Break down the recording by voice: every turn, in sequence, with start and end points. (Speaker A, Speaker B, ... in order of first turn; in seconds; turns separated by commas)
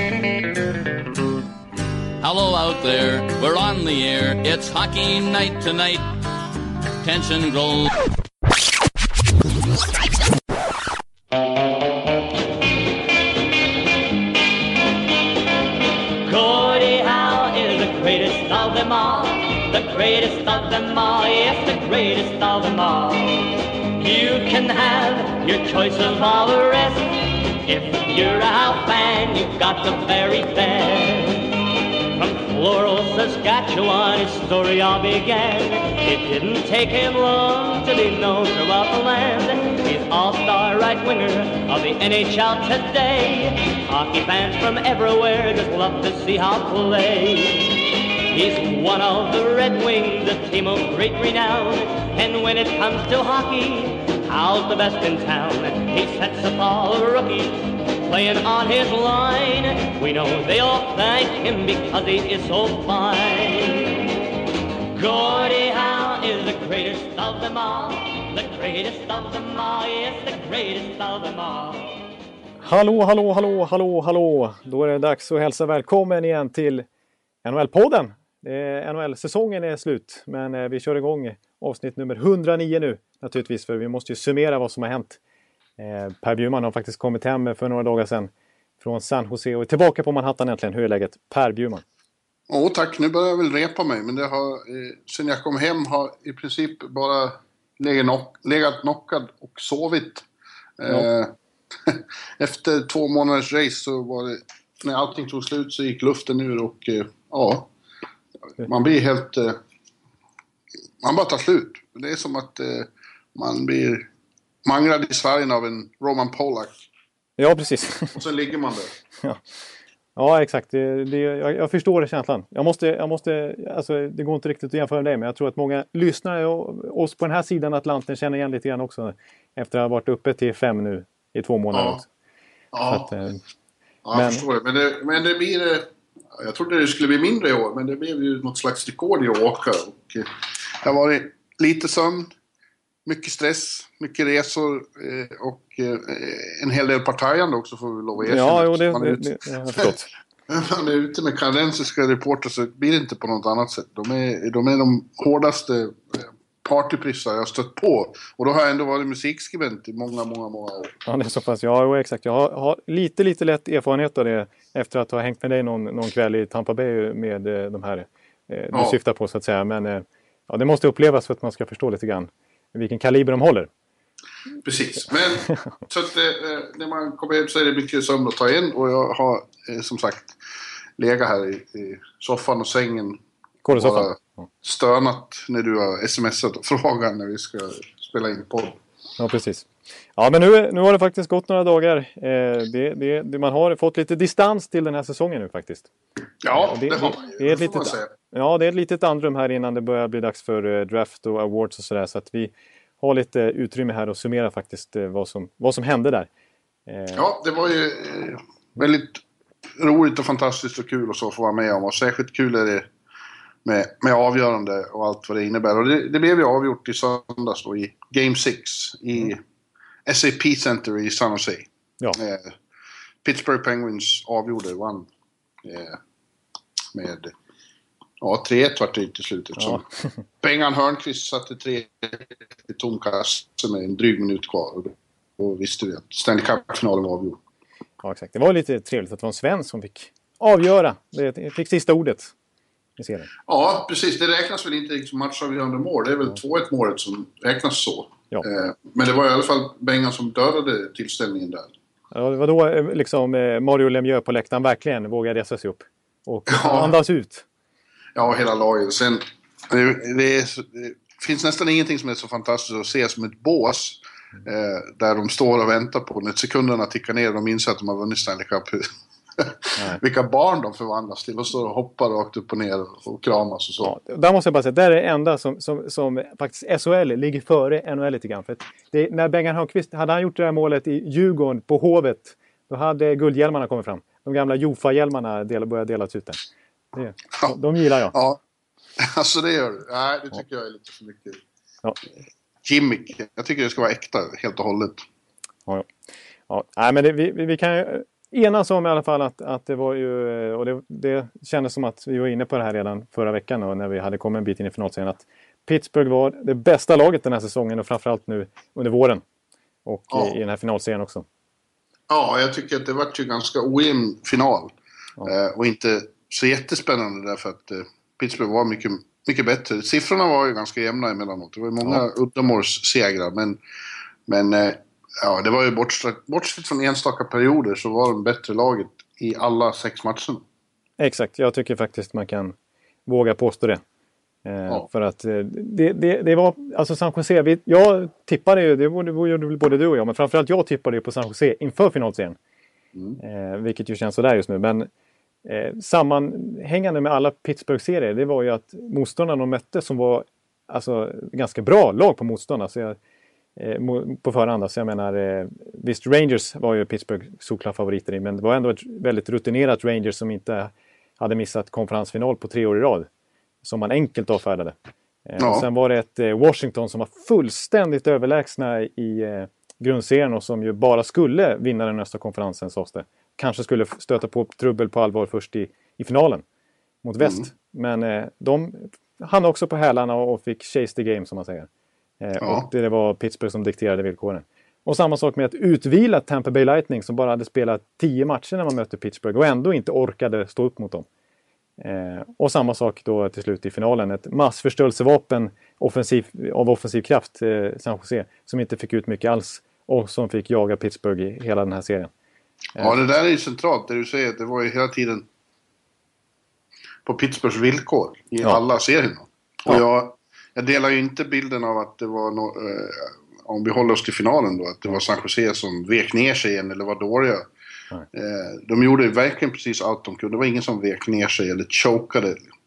Speaker A: 2.2-6.1, Speaker A: 7.0-8.0, Speaker B: 16.2-64.0, Speaker B: 64.9-72.0, Speaker C: 72.6-76.8, Speaker C: 77.4-85.2, Speaker C: 85.8-91.8, Speaker D: 92.5-100.2, Speaker D: 100.8-101.3, Speaker D: 101.8-107.7, Speaker D: 108.6-109.6, Speaker D: 111.0-114.1, Speaker D: 114.6-116.7, Speaker C: 117.4-118.2, Speaker D: 118.1-118.9, Speaker C: 120.2-132.1, Speaker D: 131.7-132.0, Speaker D: 132.7-133.1, Speaker C: 132.9-133.4, Speaker D: 134.0-142.3, Speaker C: 134.1-134.4, Speaker D: 143.1-149.9, Speaker C: 148.2-150.1, Speaker D: 150.5-160.9, Speaker C: 161.0-173.7, Speaker D: 174.6-180.3, Speaker D: 181.0-183.2, Speaker C: 183.6-184.5, Speaker D: 183.7-188.8, Speaker C: 189.2-195.9, Speaker D: 196.4-198.1, Speaker C: 196.5-206.3, Speaker C: 206.9-207.3, Speaker D: 207.2-209.2, Speaker D: 209.8-212.9, Speaker D: 213.6-219.4, Speaker D: 220.1-222.5, Speaker D: 223.2-225.1, Speaker D: 225.6-226.0, Speaker D: 226.9-227.3, Speaker D: 228.2-229.8, Speaker D: 230.4-237.4, Speaker C: 238.0-242.3, Speaker C: 243.0-243.3, Speaker D: 243.5-251.7, Speaker C: 252.1-257.4, Speaker D: 256.5-256.9, Speaker D: 258.1-273.9, Speaker C: 273.8-286.4, Speaker C: 286.9-288.1, Speaker D: 288.1-288.4, Speaker D: 289.0-291.4, Speaker D: 292.6-295.0, Speaker C: 296.5-309.2, Speaker C: 309.8-311.2, Speaker D: 312.1-314.7, Speaker D: 315.2-323.6, Speaker D: 324.3-330.4, Speaker C: 331.0-332.5, Speaker C: 333.1-333.8, Speaker C: 334.4-342.4, Speaker C: 343.2-344.9, Speaker C: 345.4-353.0, Speaker C: 353.6-363.1, Speaker C: 363.6-364.7, Speaker C: 365.2-376.4, Speaker D: 365.4-365.6, Speaker C: 377.0-381.7, Speaker C: 382.2-391.1, Speaker D: 382.4-382.7, Speaker C: 391.8-402.1, Speaker D: 402.8-405.3, Speaker D: 407.1-417.5, Speaker D: 418.1-422.5